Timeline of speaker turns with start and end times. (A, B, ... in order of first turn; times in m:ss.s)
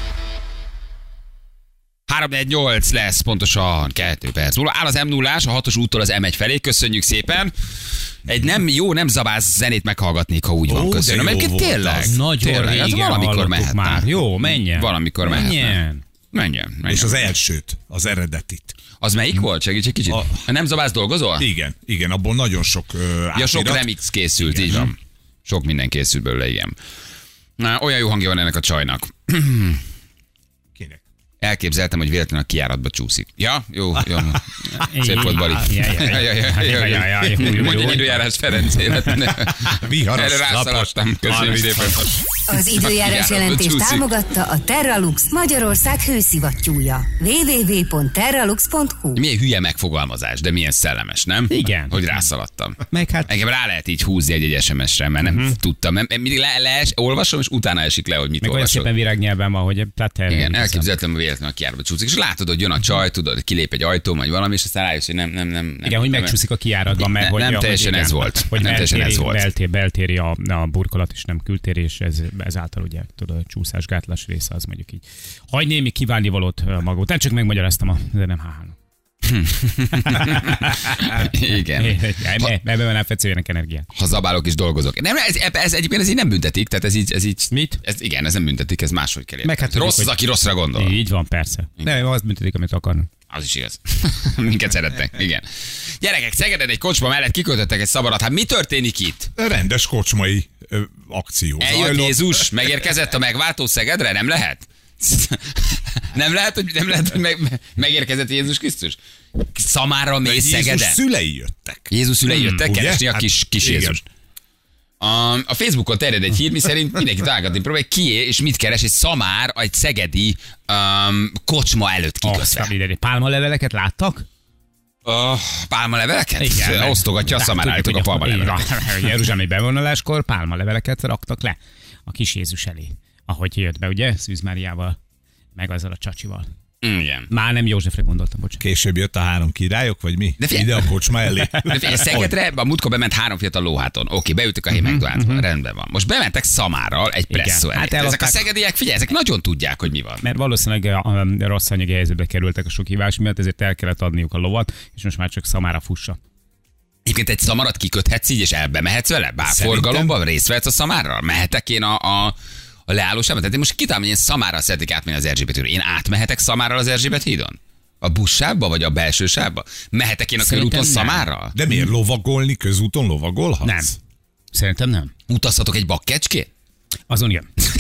0:02.1-0:07.5 A
0:08.3-0:15.8 A
0:10.7-0:12.2 B
0:12.0-0:16.0 C
0:16.3-0:17.3 A
0:16.8-0:18.8 B
0:19.0-0:21.5 A
0:20.1-0:20.4 B
0:21.4-0:24.9 B
0:23.4-0:26.8 A
0:27.6-0:29.8 A
0:30.8-0:31.0 B
0:31.4-0:42.1 A
0:34.8-0:38.2 C
0:39.7-0:42.0 B
0:42.5-0:49.2 D
0:42.6-0:44.1 A
0:49.2-0:58.9 A
0:51.5-0:52.0 C
0:52.9-0:53.3 C
0:55.2-0:55.5 C
0:58.4-1:00.9 C
1:00.3-1:06.4 A
1:05.8-1:18.8 C
1:07.0-1:09.5 A
1:19.2-1:22.5 A
1:20.2-1:20.9 C
1:21.8-1:23.9 C
1:24.0-1:31.0 A
1:27.5-1:27.8 C
1:29.4-1:30.1 C
1:30.8-1:33.1 C
1:33.3-1:35.4 A
1:36.0-1:39.3 A
1:39.4-1:42.7 B
1:41.6-1:49.0 A
1:49.6-1:51.0 A
1:50.2-1:51.9 B
1:51.9-1:54.0 A
1:52.3-1:52.6 C
1:52.5-1:54.0 B
1:55.0-2:02.7 A
2:02.2-2:04.3 C
2:05.0-2:08.6 A
2:06.4-2:15.0 C
2:15.6-2:16.5 C
2:16.8-2:17.3 A
2:17.3-2:18.6 C
2:18.6-2:22.3 B
2:20.4-2:20.9 A
2:21.7-2:30.2 A
2:24.7-2:25.4 C
2:27.3-2:28.5 C
2:30.2-2:36.2 C
2:37.1-2:42.4 A
2:39.4-2:40.1 B
2:42.9-2:51.6 A
2:50.4-2:51.9 C
2:51.5-2:53.9 B
2:53.6-2:54.0 C
2:54.5-2:55.1 C
2:55.3-2:56.5 A
2:57.1-2:57.5 C